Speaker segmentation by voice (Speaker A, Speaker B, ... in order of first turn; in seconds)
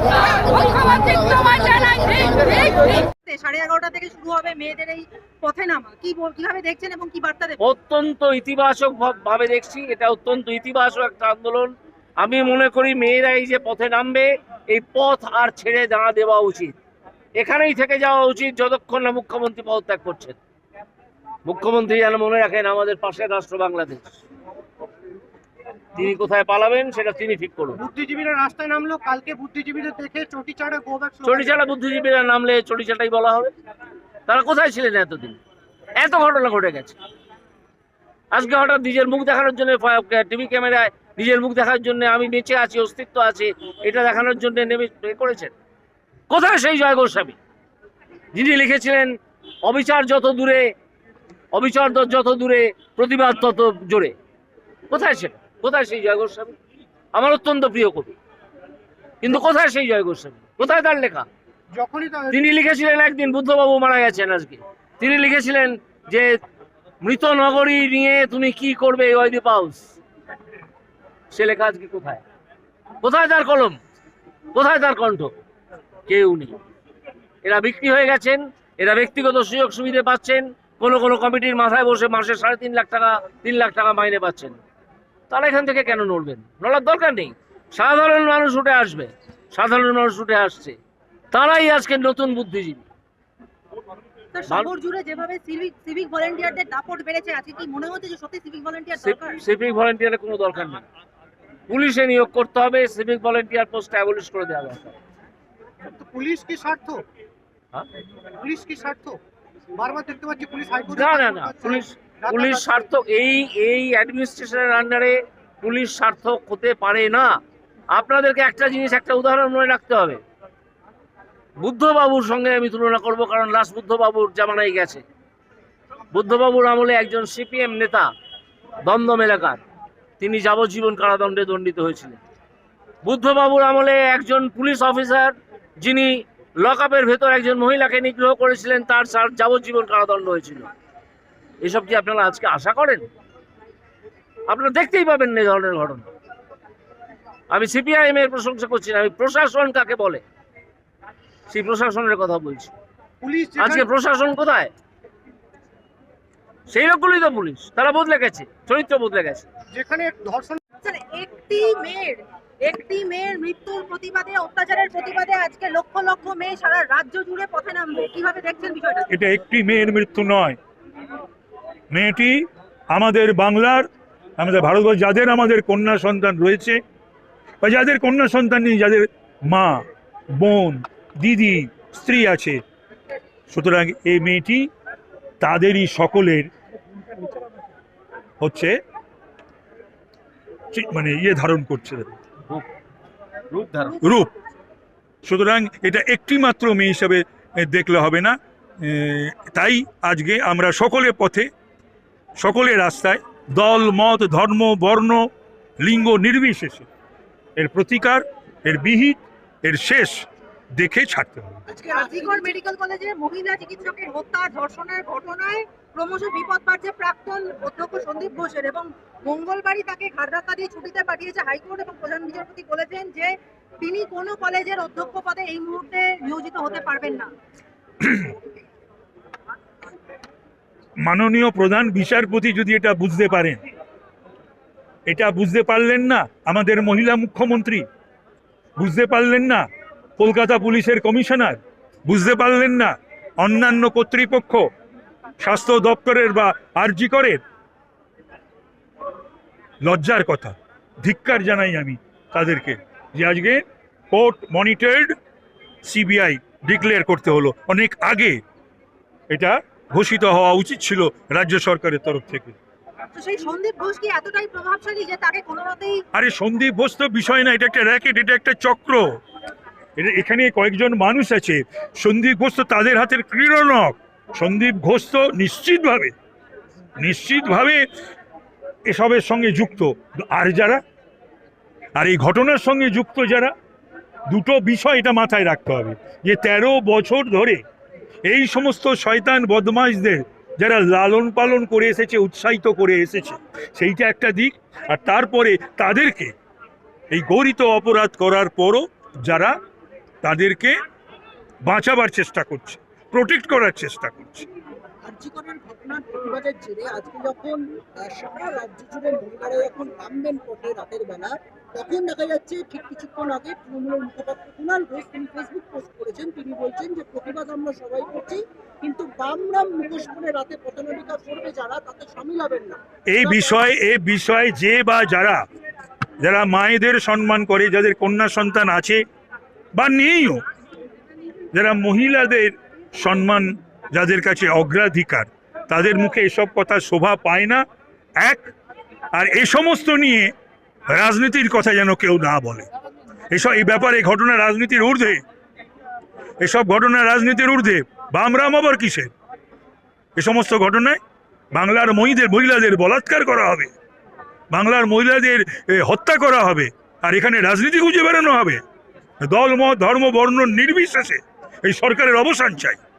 Speaker A: 1.4-7.6, 94.3-99.4, 160.8-169.1, 211.9-227.3, 263.1-266.0
Speaker B: 7.6-16.8, 17.4-20.4, 21.5-24.2, 26.0-27.8, 31.2-33.5, 34.3-35.4, 36.0-37.0, 38.3-45.5, 46.3-47.4, 48.3-50.7, 51.5-54.1, 54.9-56.5, 57.1-58.2, 59.2-61.3, 62.3-66.3, 67.0-70.0, 71.3-72.2, 73.0-73.8, 74.5-75.3, 76.1-76.6, 77.4-84.6, 85.3-90.8, 91.3-92.8, 99.0-100.8, 101.7-105.0, 110.9-117.3, 117.9-120.2, 121.6-125.0, 126.1-128.1, 128.8-129.6, 130.2-132.2, 133.1-140.7, 141.6-143.1, 144.5-146.1, 147.5-150.2, 151.5-152.7, 153.6-154.7, 156.7-159.5, 193.5-194.0
Speaker C: 27.8-31.6, 61.7-62.5, 105.8-107.0, 108.4-109.2, 109.8-112.9, 153.2-153.9, 159.7-160.6
Speaker D: 169.1-170.6, 171.9-173.9, 174.4-176.8, 177.6-182.6, 183.5-184.7, 185.4-186.5, 188.4-188.8, 190.7-192.1, 194.0-194.3, 195.2-201.5, 202.4-205.3, 205.8-206.9, 207.6-210.2, 210.8-211.6, 228.0-228.3, 231.1-233.6, 235.1-237.8, 238.8-239.7, 240.2-244.7, 245.4-247.4, 249.8-255.2, 255.8-258.4, 259.3-262.6, 266.2-269.0, 270.0-276.1, 277.0-277.8, 278.9-280.8, 282.0-283.5, 284.3-287.6, 288.2-296.3, 297.1-299.6, 300.2-300.8, 301.7-304.5, 323.1-325.4, 326.2-329.0, 329.8-330.4, 331.5-337.6, 338.2-338.5, 339.1-340.3, 340.9-342.7, 343.3-345.2, 346.4-349.1, 350.2-351.0, 351.5-353.7, 354.5-358.6, 359.2-362.8
Speaker E: 211.7-212.6, 305.1-323.6